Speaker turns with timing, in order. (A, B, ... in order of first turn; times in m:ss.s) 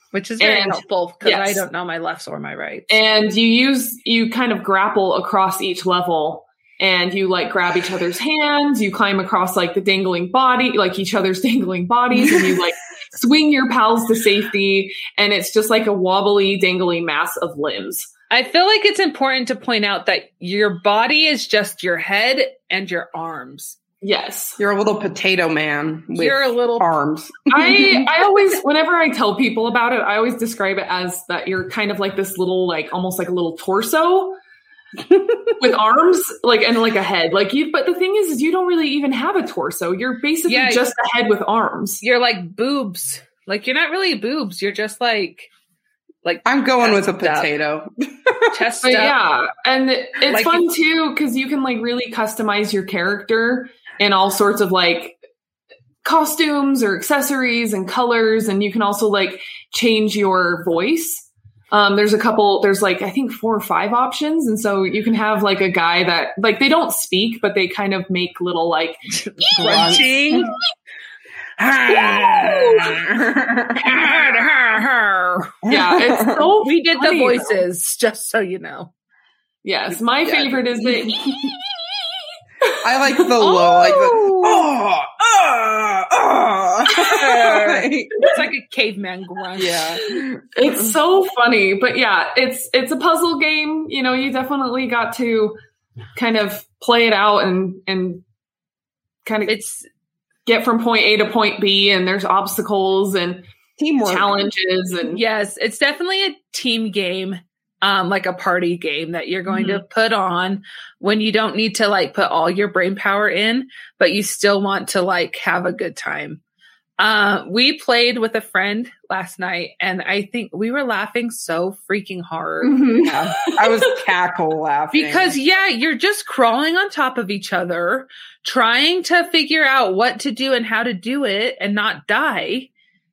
0:00.1-0:03.0 A
0:00.4-0:01.6 B
0:02.9-0:18.1 B
0:18.3-0:23.8 A
0:24.0-0:24.6 B
0:24.6-0:28.1 C
0:26.1-0:26.9 A
0:27.5-0:34.4 B
0:35.1-0:35.5 C
0:35.6-0:42.0 B
0:40.5-0:40.8 A
0:42.0-0:45.5 A
0:46.2-0:47.5 A
0:46.4-0:48.6 C
0:48.5-0:49.2 A
0:48.8-0:55.2 B
0:50.3-0:50.7 A
0:56.0-1:09.0 B
1:09.2-1:10.6 A
1:09.6-1:10.5 C
1:11.6-1:14.2 C
1:11.8-1:13.0 A
1:13.8-1:15.6 A
1:15.6-1:16.5 C
1:15.7-1:17.6 B
1:16.6-1:18.9 A
1:19.6-1:21.3 B
1:20.2-1:20.5 C
1:21.2-1:21.5 C
1:22.8-1:28.2 C
1:23.4-1:24.7 A
1:27.0-1:30.0 A
1:29.6-1:30.9 C
1:30.5-1:35.6 B
1:36.2-1:38.2 B
1:39.2-1:39.6 B
1:39.5-1:39.8 A
1:40.4-1:43.4 B
1:43.8-1:44.4 C
1:44.0-1:45.2 B
1:45.1-1:56.4 A
1:49.5-1:49.8 B
1:57.0-2:02.9 A
2:02.6-2:03.9 B
2:03.0-2:05.4 C
2:04.9-2:12.7 A